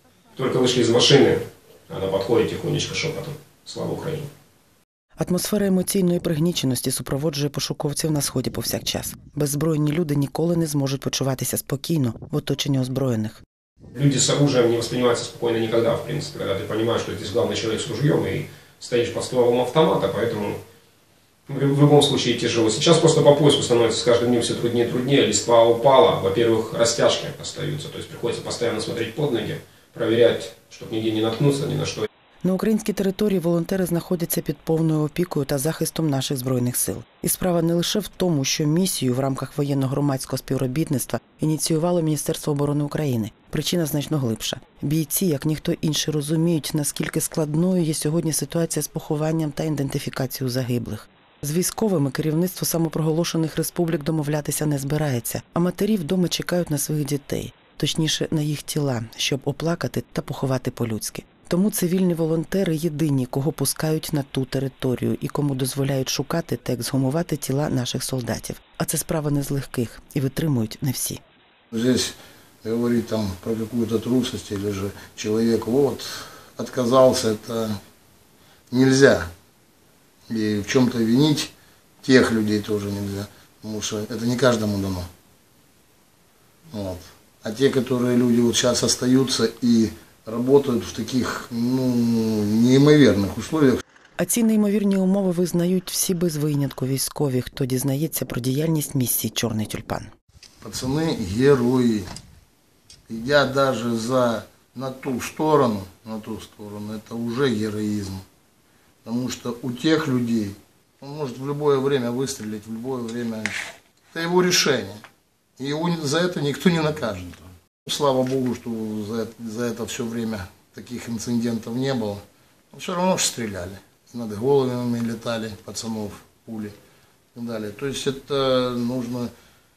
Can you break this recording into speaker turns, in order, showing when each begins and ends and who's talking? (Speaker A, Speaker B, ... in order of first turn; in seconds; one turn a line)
Speaker A: 0.3-4.3
Speaker B: 5.2-13.4
Speaker A: 13.9-20.6
Speaker A: 21.5-32.1
Speaker B: 32.4-71.2
Speaker C: 71.7-77.8
Speaker C: 78.7-79.3
Speaker C: 80.3-85.1
Speaker C: 86.7-93.8
Speaker B: 94.2-100.1
Speaker C: 100.6-102.1
Speaker C: 103.1-108.2
Speaker C: 109.0-113.6
Speaker C: 114.1-115.0
Speaker C: 115.6-126.7
Speaker C: 127.3-129.3